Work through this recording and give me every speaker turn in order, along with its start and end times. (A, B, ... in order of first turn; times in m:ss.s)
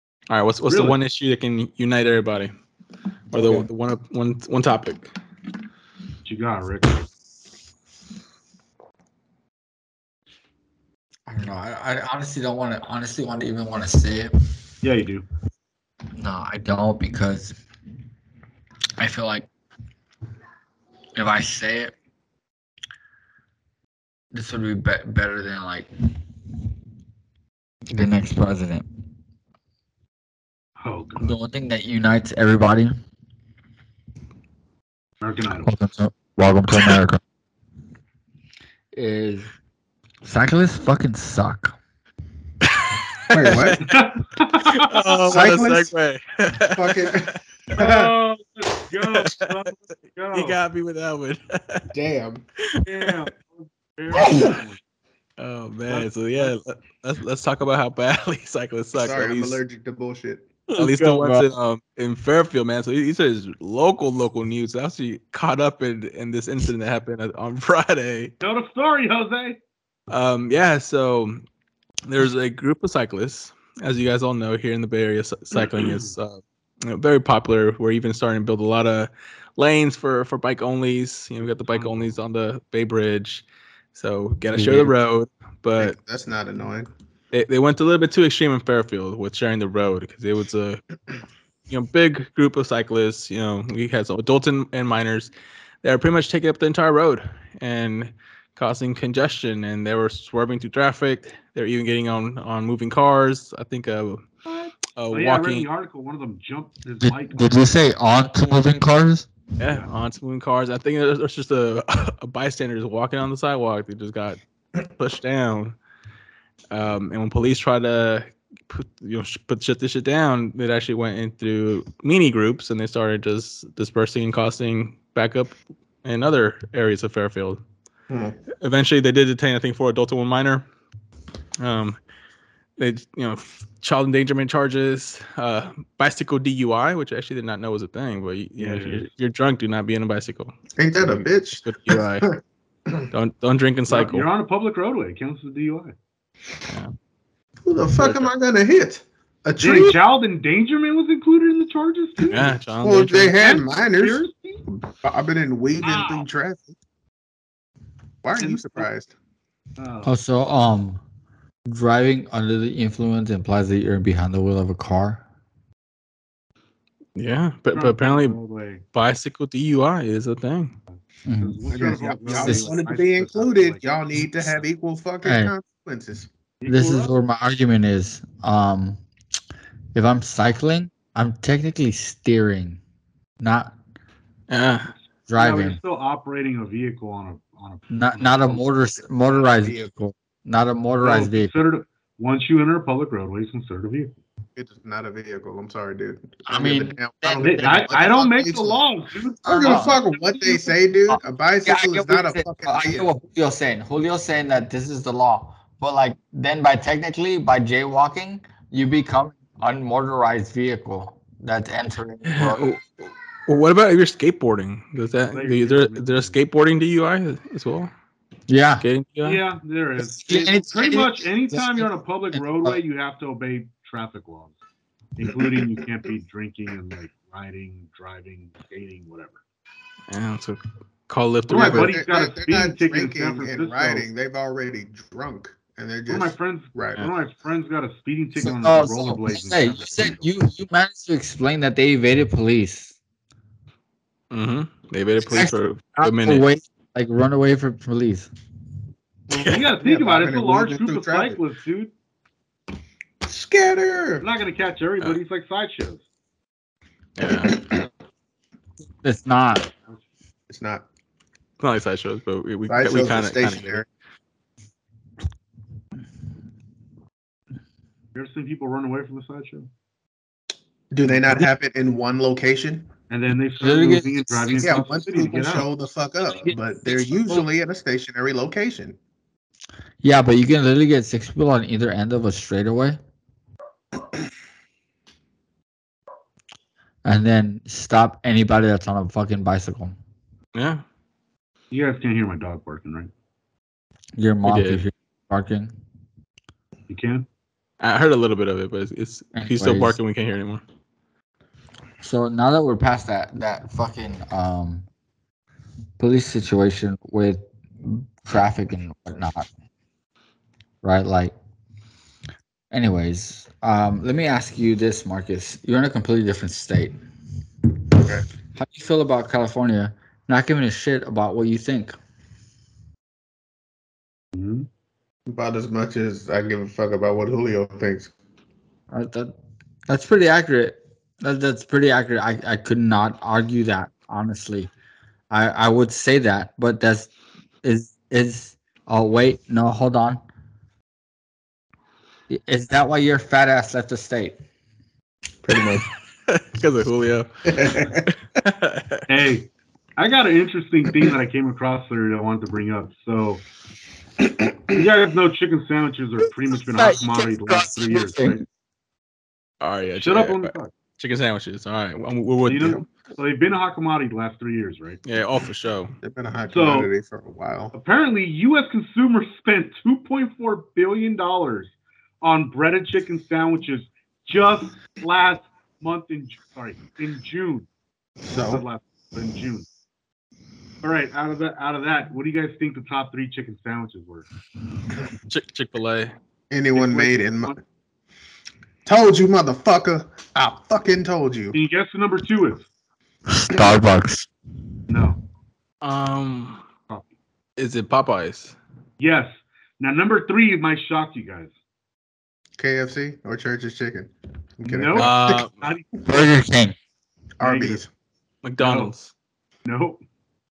0:00.3-0:02.5 A
0:00.7-0:01.0 B
0:03.3-0:03.7 C
0:03.3-0:05.1 A
0:06.2-0:07.0 B
0:11.3-0:14.3 C
0:14.8-0:15.2 B
0:16.2-0:17.6 C
0:19.0-0:19.5 C
0:21.2-0:21.9 C
0:24.3-0:25.9 C
0:27.9-0:28.9 C
0:30.8-0:31.4 B
0:31.2-0:32.9 C
0:35.2-0:35.7 B
0:35.6-0:37.2 C
0:38.9-0:39.5 C
0:40.2-0:41.8 C
0:42.7-0:43.8 A
0:43.3-0:43.8 D
0:43.8-0:45.4 B
0:44.6-0:47.3 A
0:45.3-0:45.9 D
0:46.8-0:48.1 D
0:47.8-0:50.6 B
0:49.1-0:49.7 A
0:50.3-0:51.9 A
0:51.9-0:52.4 D
0:52.8-0:54.8 B
0:55.4-0:59.6 A
0:55.9-0:56.5 B
0:59.0-1:00.5 D
1:00.7-1:01.5 C
1:00.8-1:08.3 A
1:08.4-1:09.6 B
1:10.1-1:11.4 A
1:12.1-1:26.0 A
1:15.8-1:16.1 B
1:21.7-1:22.1 B
1:24.5-1:24.9 C
1:25.8-1:26.9 D
1:27.3-1:30.8 A
1:31.7-1:35.3 A
1:35.8-1:44.2 A
1:44.5-1:47.6 B
1:44.9-1:45.7 A
1:47.0-1:49.3 C
1:49.6-1:55.8 A
1:56.7-2:05.5 A
2:06.0-2:07.6 A
2:08.1-2:08.4 D
2:08.6-2:10.7 A
2:11.6-2:12.0 A
2:12.8-2:22.3 A
2:18.6-2:19.1 B
2:20.8-2:23.1 D
2:23.1-2:24.2 A
2:23.9-2:25.9 B
2:27.6-2:30.0 D
2:28.0-2:28.3 A
2:29.6-2:32.6 B
2:32.3-2:33.3 A
2:32.8-2:36.8 D
2:33.4-2:34.6 B
2:35.8-2:36.3 B
2:38.2-2:39.1 D
2:38.4-2:38.9 B
2:39.8-2:40.2 B
2:40.0-2:41.0 C
2:41.7-2:45.2 C
2:47.2-2:48.4 A
2:47.7-2:48.8 B
2:48.9-2:50.7 A
2:51.3-2:51.6 C
2:51.4-2:54.6 B
2:51.7-2:56.3 D
2:52.4-2:52.7 C
2:55.2-2:55.5 C
2:56.6-2:57.2 B
2:56.7-2:59.0 C
3:00.0-3:02.8 C
3:03.4-3:03.8 C
3:04.5-3:04.9 A
3:05.3-3:05.8 C
3:05.3-3:08.6 B
3:07.9-3:11.5 C
3:09.2-3:09.9 D
3:11.0-3:14.1 B
3:14.6-3:18.8 D
3:16.5-3:18.0 C
3:17.4-3:20.7 B
3:19.4-3:20.0 C
3:19.6-3:23.1 D
3:21.1-3:32.8 C
3:32.3-3:37.9 A
3:35.3-3:36.4 B
3:38.5-3:38.9 C
3:38.8-3:39.4 A
3:39.2-3:44.6 B
3:40.0-3:42.8 C
3:45.2-3:49.4 B
3:50.1-3:51.9 A
3:51.5-3:54.1 B
3:51.5-3:57.1 D
3:56.1-4:00.3 B
3:58.4-4:03.0 C
4:04.3-4:06.5 A
4:05.2-4:08.3 C
4:09.3-4:09.6 A
4:09.4-4:11.9 B
4:09.8-4:11.4 D
4:13.2-4:14.2 D
4:14.2-4:16.0 B
4:17.2-4:17.7 A
4:19.0-4:19.7 C
4:20.5-4:20.9 D
4:21.6-4:23.8 A
4:22.7-4:23.9 D
4:28.2-4:29.7 B
4:30.9-4:32.9 D
4:31.1-4:31.4 B
4:33.1-4:35.7 B
4:33.6-4:35.6 C
4:34.6-4:39.0 D
4:36.2-4:37.5 C
4:40.0-4:43.0 C
4:47.0-4:50.0 C
4:50.5-4:50.8 A
4:51.7-4:53.1 B
4:54.2-4:55.7 C
4:54.4-4:54.8 A
4:56.9-4:57.3 B
4:57.8-5:00.6 A
4:59.3-5:00.0 C
5:02.0-5:04.9 C
5:06.0-5:09.5 C
5:10.8-5:11.3 C
5:12.7-5:17.0 C
5:18.0-5:18.2 D
5:18.6-5:22.0 C
5:24.3-5:24.7 B
5:25.3-5:28.1 D
5:28.9-5:29.4 C
5:29.9-5:34.7 C
5:35.3-5:37.1 C
5:37.6-5:40.2 C
5:42.3-5:44.4 C
5:45.4-5:45.9 D
5:46.3-5:49.0 A
5:47.5-5:48.0 D
5:49.1-5:53.4 B
5:54.7-5:58.4 B
5:56.6-5:58.4 C
5:59.6-6:02.8 A
6:00.0-6:00.7 B
6:02.5-6:05.0 B
6:05.0-6:05.9 A
6:06.0-6:07.7 D
6:06.5-6:06.9 B
6:07.7-6:17.7 B
6:18.2-6:18.6 D
6:18.4-6:19.7 B
6:20.8-6:24.3 B
6:25.3-6:26.1 A
6:26.5-6:27.6 D
6:26.7-6:27.6 B
6:28.9-6:31.6 D
6:31.5-6:32.7 B
6:33.3-6:34.3 C
6:33.5-6:33.8 D
6:34.9-6:35.2 B
6:35.8-6:36.6 A
6:37.6-6:38.6 A
6:39.0-6:41.5 B
6:42.6-6:45.4 D
6:44.7-6:46.3 B
6:45.0-6:45.6 A
6:46.0-6:46.8 C
6:47.4-6:47.9 D
6:47.4-6:47.8 B
6:48.4-6:49.1 A
6:48.6-6:48.9 B
6:49.6-6:50.0 B